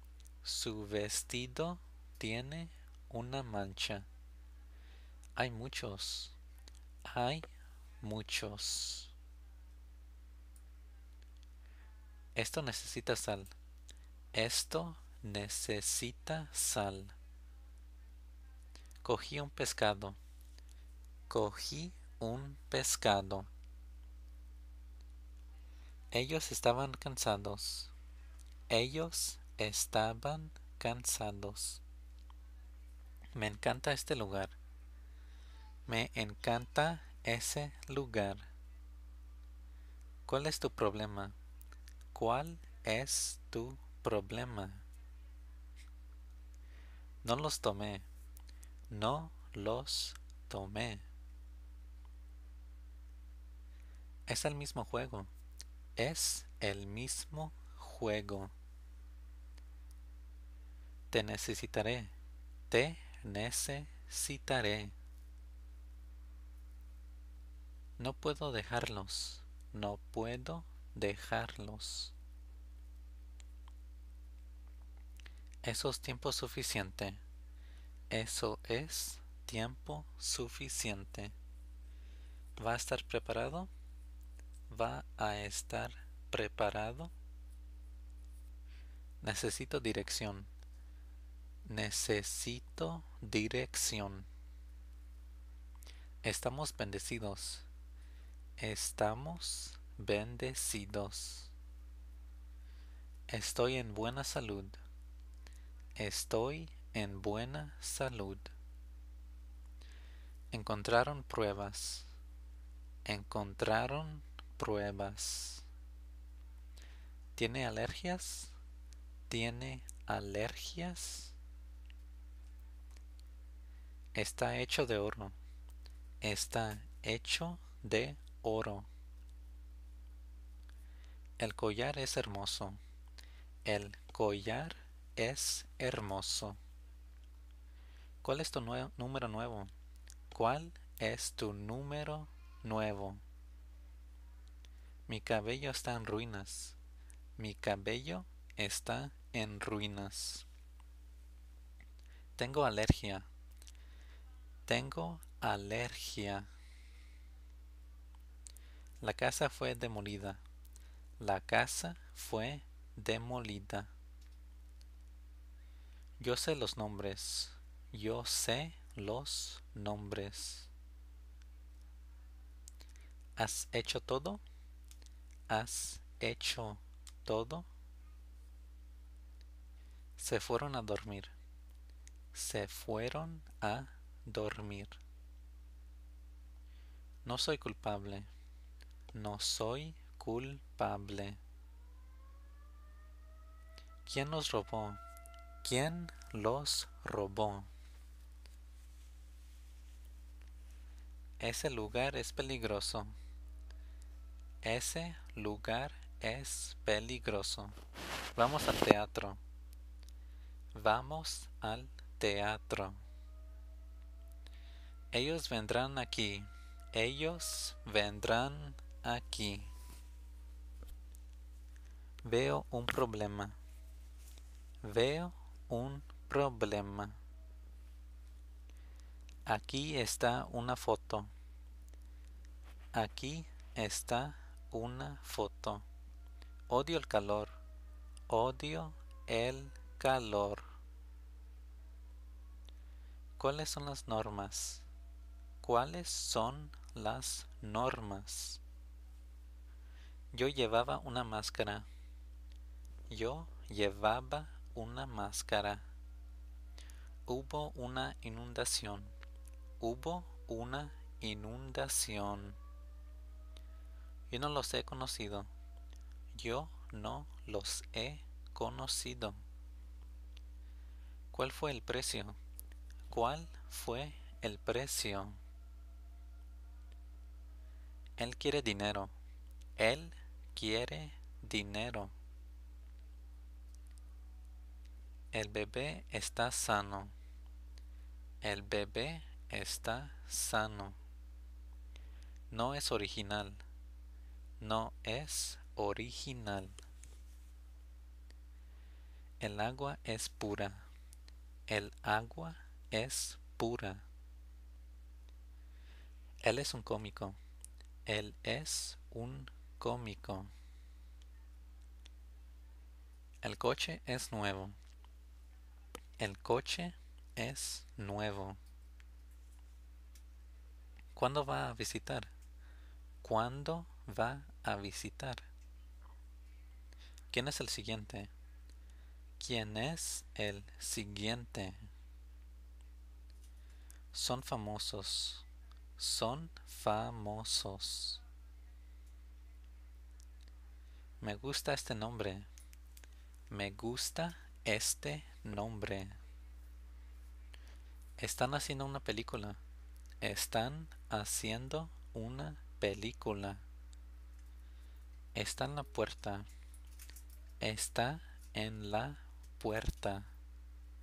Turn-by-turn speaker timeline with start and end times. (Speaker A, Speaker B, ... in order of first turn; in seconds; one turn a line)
Speaker A: 0.4-4.1
Speaker A: 5.4-6.4
Speaker A: 7.0-7.5
Speaker A: 8.0-9.1
Speaker A: 12.3-13.5
Speaker A: 14.3-17.2
Speaker A: 19.0-20.2
Speaker A: 21.3-23.5
Speaker A: 26.1-27.9
Speaker A: 28.7-31.8
Speaker A: 33.4-34.5
Speaker A: 35.9-38.5
Speaker A: 40.3-41.4
Speaker A: 42.1-44.9
Speaker A: 47.2-48.1
Speaker A: 48.9-51.1
Speaker A: 54.3-55.3
Speaker A: 56.0-58.5
Speaker A: 61.1-62.1
Speaker A: 62.7-65.0
Speaker A: 68.0-72.1
Speaker A: 75.6-77.2
Speaker A: 78.1-81.3
Speaker A: 82.6-83.7
Speaker A: 84.7-87.1
Speaker A: 89.2-90.5
Speaker A: 91.7-94.3
Speaker A: 96.2-97.7
Speaker A: 98.6-101.5
Speaker A: 103.3-104.8
Speaker A: 106.0-108.5
Speaker A: 110.5-112.1
Speaker A: 113.1-115.7
Speaker A: 117.3-118.5
Speaker A: 119.3-121.4
Speaker A: 124.1-125.4
Speaker A: 126.2-128.9
Speaker A: 131.4-132.8
Speaker A: 133.7-136.6
Speaker A: 138.2-139.7
Speaker A: 140.3-143.2
Speaker A: 145.1-146.8
Speaker A: 147.4-150.5
Speaker A: 152.4-153.3
Speaker A: 154.7-156.5
Speaker A: 159.0-160.4
Speaker A: 161.2-163.9
Speaker A: 166.2-170.7
Speaker A: 173.4-174.4
Speaker A: 175.5-177.7
Speaker A: 180.2-181.3
Speaker A: 182.3-185.0
Speaker A: 187.2-188.3
Speaker A: 189.1-191.4
Speaker A: 194.1-195.0
Speaker A: 195.6-197.7
Speaker A: 201.4-203.2
Speaker A: 204.6-207.8
Speaker A: 208.3-209.4
Speaker A: 210.7-213.0
Speaker A: 215.1-219.7
Speaker A: 222.2-223.6
Speaker A: 224.8-227.2
Speaker A: 229.5-231.3
Speaker A: 232.9-235.9
Speaker A: 236.7-237.6
Speaker A: 238.3-240.7
Speaker A: 243.4-244.9
Speaker A: 245.6-248.6
Speaker A: 250.3-251.9
Speaker A: 253.1-255.9
Speaker A: 257.3-259.1
Speaker A: 259.8-262.6
Speaker A: 264.3-265.5
Speaker A: 266.3-269.4
Speaker A: 271.3-272.4
Speaker A: 273.1-275.4
Speaker A: 278.2-279.1
Speaker A: 279.8-282.1
Speaker A: 285.3-287.1
Speaker A: 288.4-291.0
Speaker A: 292.5-293.6
Speaker A: 294.6-296.8
Speaker A: 299.4-300.9
Speaker A: 301.7-304.1
Speaker A: 306.4-307.4
Speaker A: 308.1-310.5
Speaker A: 313.4-314.8
Speaker A: 316.2-318.6
Speaker A: 321.2-322.3
Speaker A: 323.2-325.5
Speaker A: 327.3-328.3
Speaker A: 329.4-331.9
Speaker A: 334.1-335.5
Speaker A: 336.0-338.2
Speaker A: 341.2-342.5
Speaker A: 343.5-346.2
Speaker A: 348.2-349.6
Speaker A: 350.2-353.6
Speaker A: 355.4-356.5
Speaker A: 357.6-360.3